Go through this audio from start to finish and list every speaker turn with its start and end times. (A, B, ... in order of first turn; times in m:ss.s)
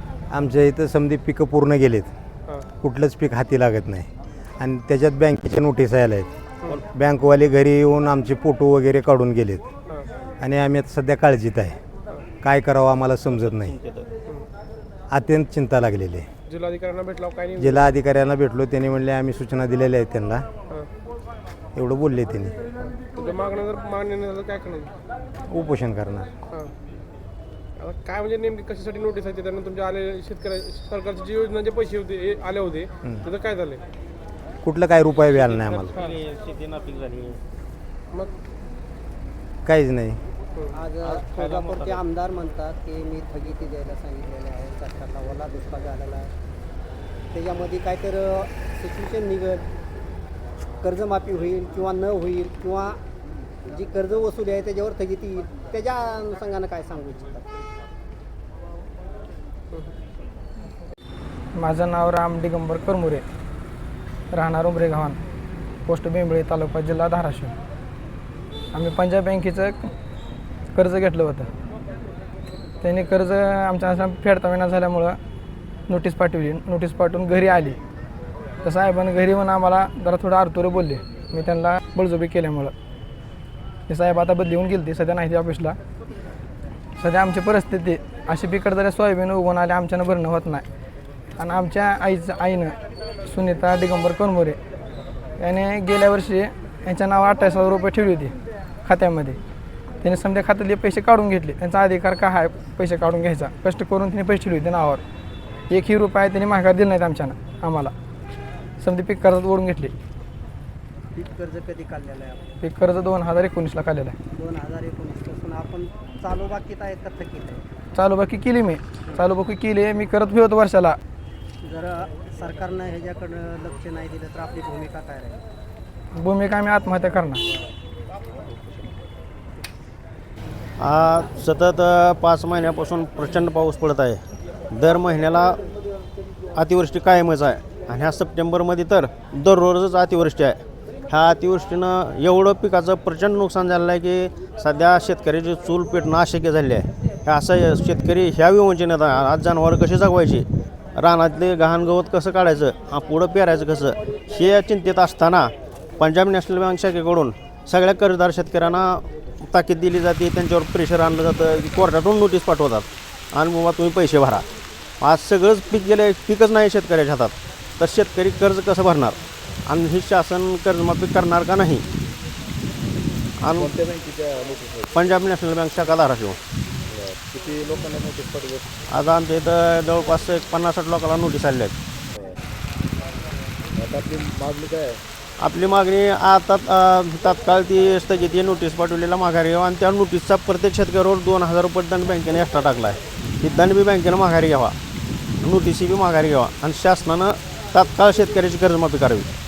0:00.3-0:02.1 A
0:02.8-0:09.7 A
0:10.4-0:11.8 A
0:12.4-0:13.7 A
0:13.4-0:14.1 B
0:15.1-0:16.3 A
0:16.5-0:17.9 C
0:17.6-0:20.4 A
0:21.7-0:22.6 A
0:23.2-0:24.9 C
0:25.5-0:26.3 A
0:27.8-0:33.8 C
0:34.6-0:36.0 A
0:35.2-0:37.4 B
0:39.6-0:40.2 A
0:40.7-0:46.3 D
0:41.0-0:42.0 B
0:47.3-0:49.6 D
0:50.8-0:53.0 D
0:53.7-0:57.5 D
1:01.5-1:03.2 E
1:04.3-1:05.2 E
1:05.8-1:07.5 E
1:08.7-1:09.9 E
1:10.7-1:11.5 E
1:12.8-1:15.2 E
1:15.9-1:17.8 E
1:18.6-1:22.7 E
1:23.9-1:25.8 E
1:27.0-1:30.6 E
1:31.4-1:34.6 E
1:35.4-1:38.3 E
1:38.8-1:39.4 E
1:40.0-1:45.0 E
1:45.7-1:47.9 E
1:48.8-1:49.9 E
1:51.1-1:52.5 D
1:52.6-1:54.2 E
1:54.3-1:57.6 D
1:57.9-2:01.0 E
2:01.6-2:05.4 D
2:06.1-2:07.4 E
2:10.8-2:15.6 B
2:16.5-2:44.4 B
2:45.0-2:51.8 B
2:53.4-2:53.7 B
2:53.5-2:54.9 F
2:54.9-2:56.4 B
2:56.9-2:58.7 F
2:58.9-3:01.7 B
3:03.8-3:05.0 F
3:05.4-3:14.7 B
3:15.4-3:19.3 B